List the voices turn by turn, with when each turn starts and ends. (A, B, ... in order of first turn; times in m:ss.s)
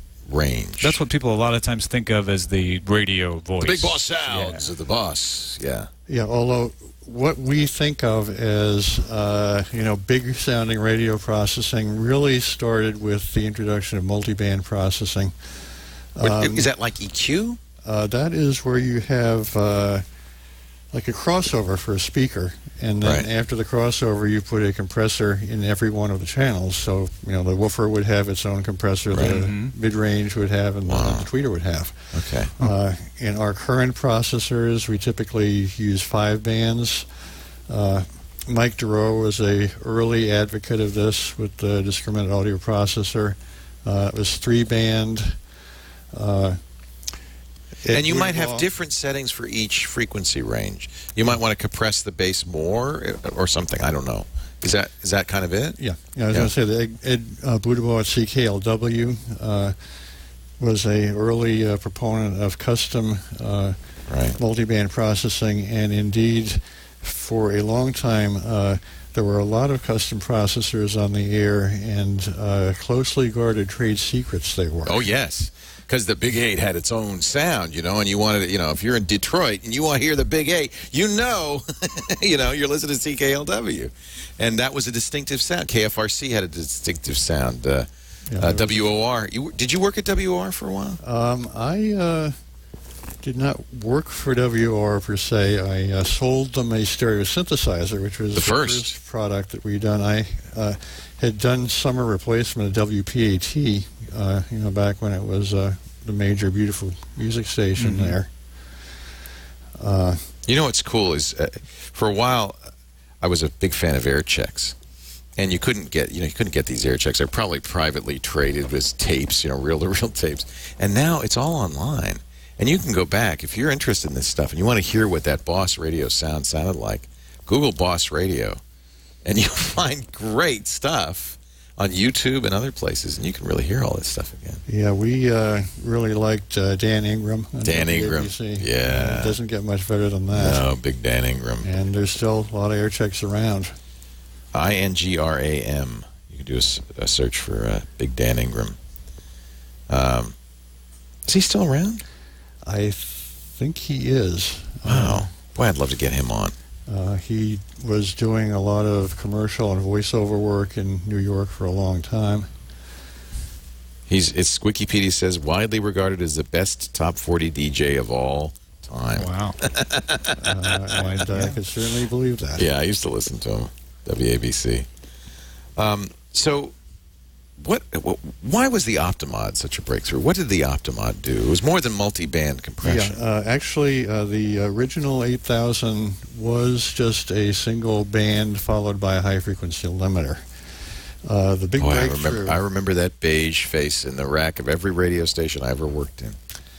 0:00.3-0:01.0 A
0:00.8-0:04.7 B
0:03.6-0:05.9 A
0:06.1-0:15.6 C
0:16.2-0:16.7 C
0:16.2-0:17.6 A
0:17.8-0:20.1 C
0:20.9-0:37.1 C
0:29.1-0:29.4 A
0:29.2-0:29.7 B
0:30.9-0:31.3 A
0:32.1-0:32.5 A
0:37.7-0:45.4 C
0:46.1-0:46.6 C
0:47.8-0:48.7 C
0:47.9-0:55.8 A
0:55.8-0:59.8 C
1:00.6-1:03.8 C
1:04.1-1:04.4 A
1:04.4-1:15.0 C
1:14.8-1:31.0 A
1:28.3-1:28.8 C
1:31.0-1:32.4 C
1:33.2-1:48.3 C
1:38.3-1:39.0 A
1:47.8-1:48.2 B
1:49.8-1:50.3 C
1:50.5-1:52.6 A
1:53.2-1:54.8 A
1:55.4-2:08.6 A
2:09.2-2:14.6 A
2:14.7-2:20.6 C
2:17.6-2:19.4 A
2:20.3-2:21.7 A
2:21.6-2:23.8 C
2:24.5-2:28.8 A
2:29.9-2:30.4 A
2:31.2-2:32.0 A
2:32.6-2:35.3 C
2:34.8-2:36.5 A
2:36.9-2:42.5 C
2:44.1-2:51.0 A
2:49.2-2:49.6 B
2:50.4-2:52.7 C
2:51.3-2:51.6 B
2:52.6-2:54.9 A
2:55.8-2:56.7 A
2:57.6-3:03.2 A
3:02.8-3:10.4 C
3:11.2-3:12.6 C
3:11.8-3:16.4 A